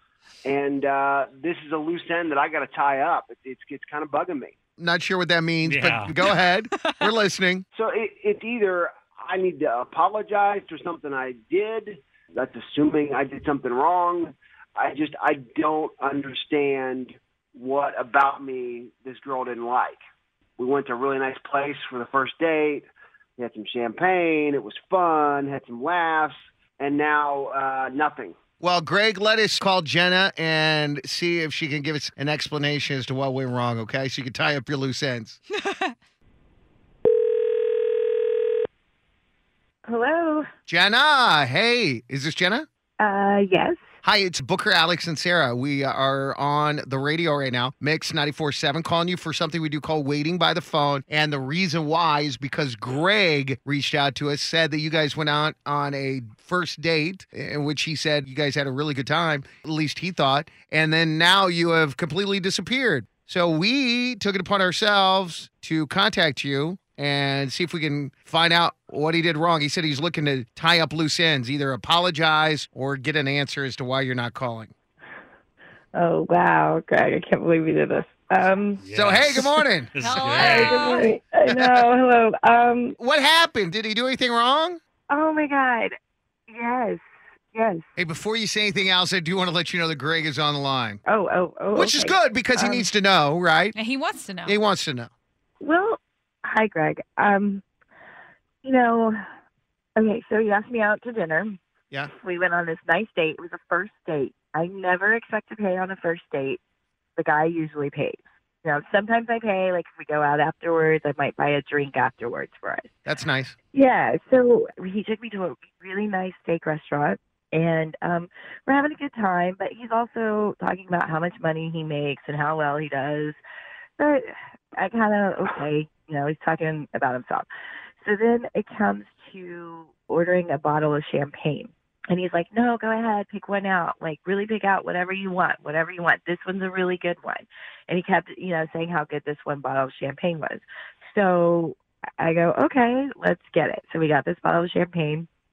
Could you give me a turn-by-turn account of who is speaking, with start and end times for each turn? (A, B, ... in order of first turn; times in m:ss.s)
0:00.4-0:04.5 A
0:04.8-0:07.6 B
0:05.6-0:06.1 C
0:07.8-0:20.0 A
0:20.6-0:22.9 A
0:23.4-0:28.4 A
0:28.6-0:35.4 B
0:35.6-0:35.9 D
0:39.9-0:40.4 E
0:40.7-0:42.7 B
0:43.0-0:43.8 E
0:44.0-1:14.7 B
1:15.9-1:18.8 E
1:18.8-1:21.1 C
1:18.9-1:19.9 B
1:20.0-1:21.0 D
1:20.2-1:23.0 E
1:21.5-1:21.8 B
1:23.0-1:24.8 B
1:25.1-1:25.9 E
1:26.5-1:27.0 E
1:27.5-1:27.8 E
1:28.0-1:31.0 B
1:31.1-1:32.9 E
1:31.7-1:33.8 B
1:33.8-1:34.6 D
1:34.5-1:35.1 B
1:35.6-1:37.6 E
1:38.6-1:39.2 E
1:40.0-1:41.6 E
1:42.1-1:46.6 E
1:47.2-1:52.9 E
1:53.1-1:53.6 B
1:53.7-2:03.4 E
2:04.0-2:07.5 E
2:08.0-2:25.3 E